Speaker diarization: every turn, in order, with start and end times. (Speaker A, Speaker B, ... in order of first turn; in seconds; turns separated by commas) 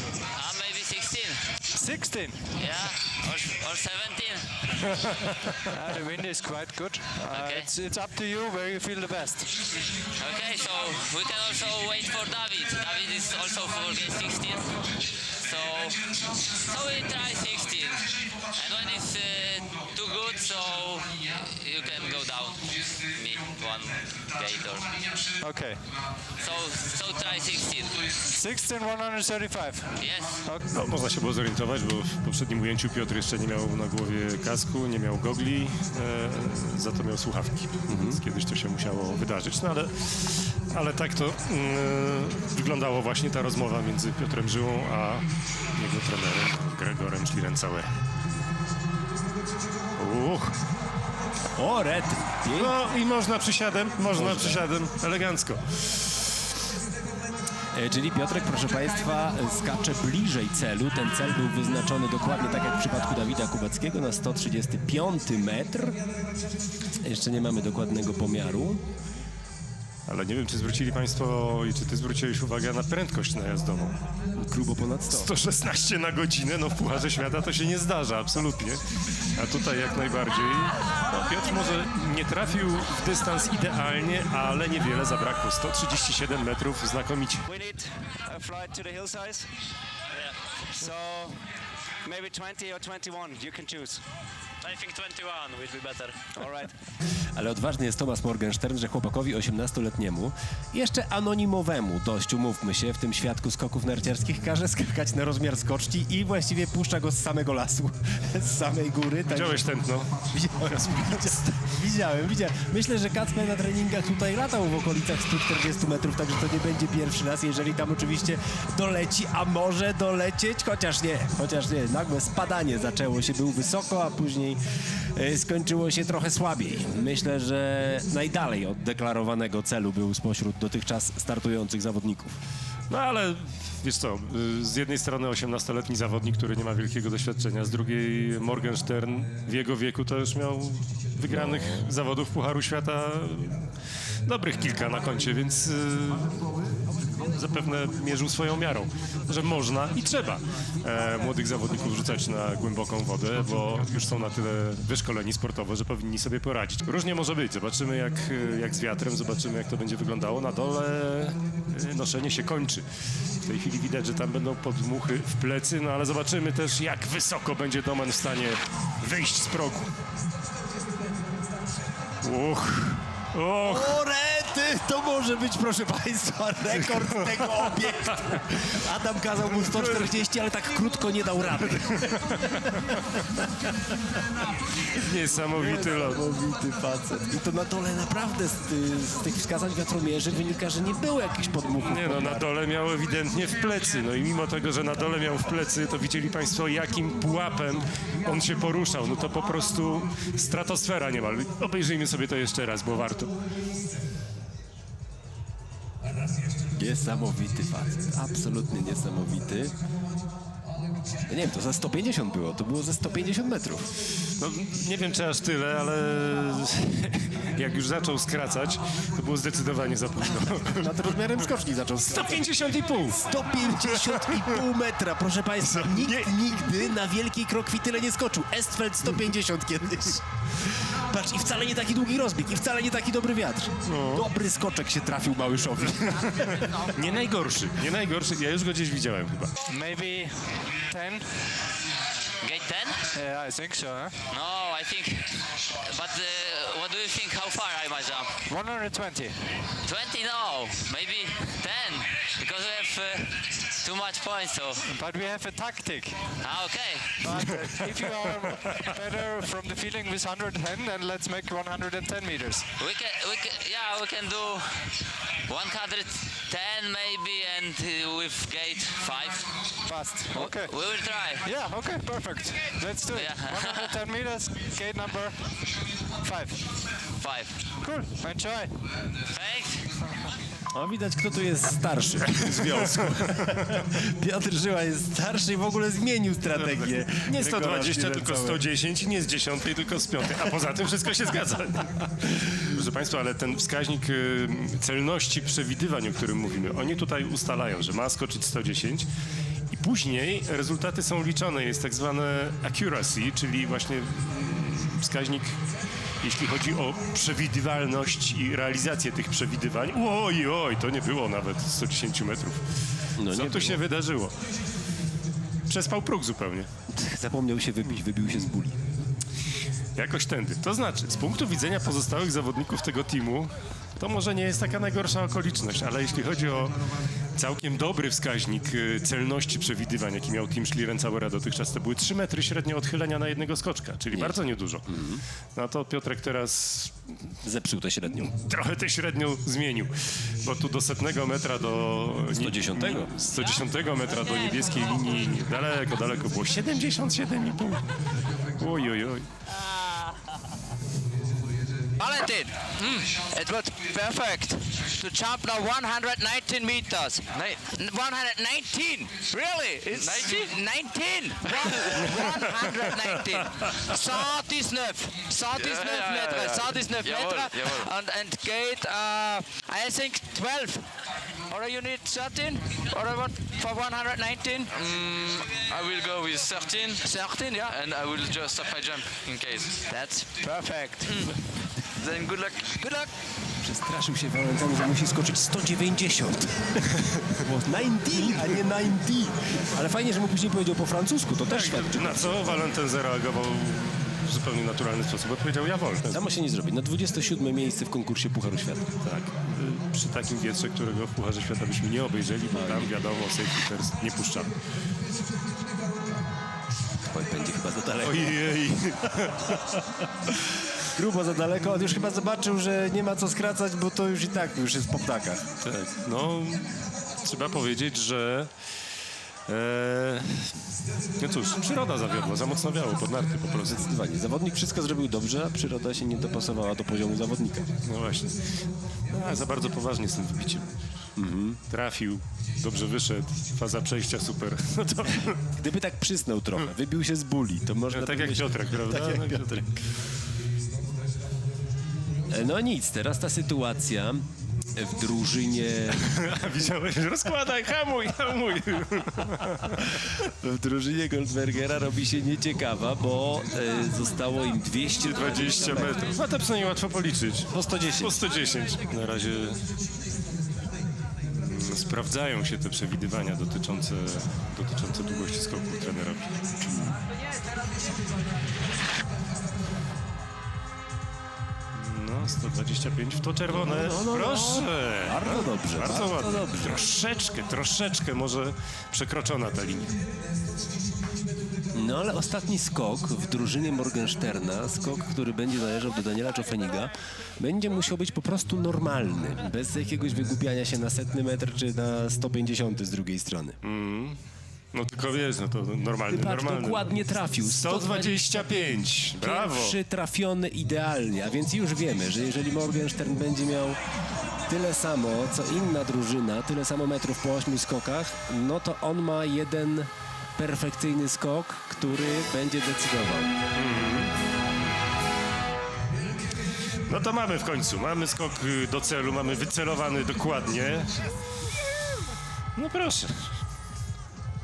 Speaker A: 0.3-1.4, Speaker B: 1.7-2.4, Speaker A: 2.5-4.6, Speaker C: 5.2-5.7, Speaker B: 5.7-9.5, Speaker A: 7.3-7.7, Speaker A: 10.2-14.8, Speaker A: 15.4-24.9, Speaker B: 25.4-25.8, Speaker A: 26.4-28.0, Speaker B: 28.2-30.7, Speaker A: 30.0-30.3, Speaker C: 30.7-47.9, Speaker D: 37.9-38.2, Speaker C: 50.0-50.6, Speaker D: 51.5-52.7, Speaker C: 52.5-56.0, Speaker D: 54.1-54.6, Speaker D: 57.7-66.0, Speaker D: 67.0-68.8, Speaker C: 70.1-74.0, Speaker D: 74.3-75.3, Speaker C: 75.1-78.8, Speaker C: 79.3-87.5, Speaker E: 87.5-89.5, Speaker E: 90.7-91.4, Speaker E: 92.0-94.0, Speaker E: 94.9-96.7, Speaker D: 97.3-124.6, Speaker C: 109.3-110.2, Speaker C: 110.7-111.3, Speaker D: 125.1-132.3, Speaker C: 132.9-143.7, Speaker D: 141.3-141.9, Speaker C: 144.2-146.4, Speaker C: 147.2-162.8, Speaker C: 163.4-169.9, Speaker C: 172.2-174.0, Speaker D: 173.6-184.0, Speaker C: 176.8-178.1, Speaker C: 179.6-180.1, Speaker C: 182.0-182.7, Speaker C: 184.9-186.2, Speaker D: 185.5-192.5, Speaker C: 191.8-203.3, Speaker D: 206.8-209.7, Speaker D: 211.3-213.9, Speaker C: 214.4-220.9, Speaker D: 220.8-222.5, Speaker C: 222.1-223.2, Speaker D: 223.2-236.8, Speaker C: 224.0-224.4, Speaker C: 225.7-226.3, Speaker C: 233.8-234.2, Speaker C: 236.4-239.5, Speaker B: 239.7-241.4, Speaker A: 242.4-243.0, Speaker B: 243.1-244.1, Speaker A: 244.3-248.3, Speaker B: 248.5-249.4, Speaker A: 249.8-254.8, Speaker B: 254.9-256.3, Speaker A: 256.4-257.2, Speaker B: 257.2-262.6, Speaker A: 262.8-264.9, Speaker A: 265.4-269.4, Speaker B: 269.9-270.7, Speaker A: 270.3-271.4, Speaker B: 271.4-275.4, Speaker A: 273.1-273.9, Speaker B: 276.2-276.6, Speaker A: 277.2-277.6, Speaker B: 277.8-278.7, Speaker A: 279.3-279.9, Speaker D: 280.7-288.6, Speaker C: 282.4-283.5, Speaker C: 286.5-299.1, Speaker C: 299.7-305.6, Speaker C: 306.2-312.6, Speaker D: 313.2-313.8, Speaker C: 313.3-314.4, Speaker C: 315.7-316.7, Speaker D: 316.9-318.8, Speaker C: 319.9-326.8, Speaker C: 327.4-334.8, Speaker D: 334.1-335.2, Speaker C: 335.5-337.3, Speaker D: 337.4-338.3, Speaker C: 338.1-347.9, Speaker D: 342.3-343.1, Speaker C: 348.6-349.3, Speaker F: 352.0-352.6, Speaker G: 352.8-353.1, Speaker F: 353.2-370.9, Speaker G: 357.3-357.7, Speaker G: 359.9-360.6, Speaker G: 361.4-362.4, Speaker C: 363.6-363.9, Speaker G: 365.5-367.9, Speaker F: 371.5-374.7, Speaker G: 374.7-379.8, Speaker F: 377.0-377.7, Speaker F: 379.9-381.2, Speaker G: 381.1-381.3, Speaker G: 382.0-383.1, Speaker D: 383.6-392.6, Speaker C: 391.4-396.2, Speaker D: 396.1-398.9, Speaker C: 399.0-404.5, Speaker D: 402.5-402.9, Speaker D: 407.1-408.4, Speaker C: 408.0-409.8, Speaker D: 410.8-415.4, Speaker C: 415.6-418.5, Speaker C: 419.5-420.6, Speaker C: 421.2-423.8, Speaker D: 423.7-427.7, Speaker C: 427.8-428.5, Speaker C: 429.1-430.7, Speaker D: 431.2-431.6, Speaker C: 431.7-435.4, Speaker D: 435.6-439.6, Speaker C: 437.9-439.7, Speaker D: 442.3-444.2, Speaker D: 444.7-446.1, Speaker C: 445.9-450.0, Speaker D: 449.8-456.1, Speaker C: 455.0-459.6, Speaker D: 457.5-458.1, Speaker C: 461.3-466.3, Speaker D: 466.6-466.9, Speaker C: 471.7-479.9, Speaker D: 473.5-476.8, Speaker D: 481.7-493.6, Speaker C: 493.6-494.2, Speaker C: 494.7-499.8, Speaker D: 496.1-498.5, Speaker D: 499.2-503.8, Speaker D: 504.5-513.3, Speaker C: 513.5-514.1, Speaker C: 516.9-520.9, Speaker C: 522.5-523.3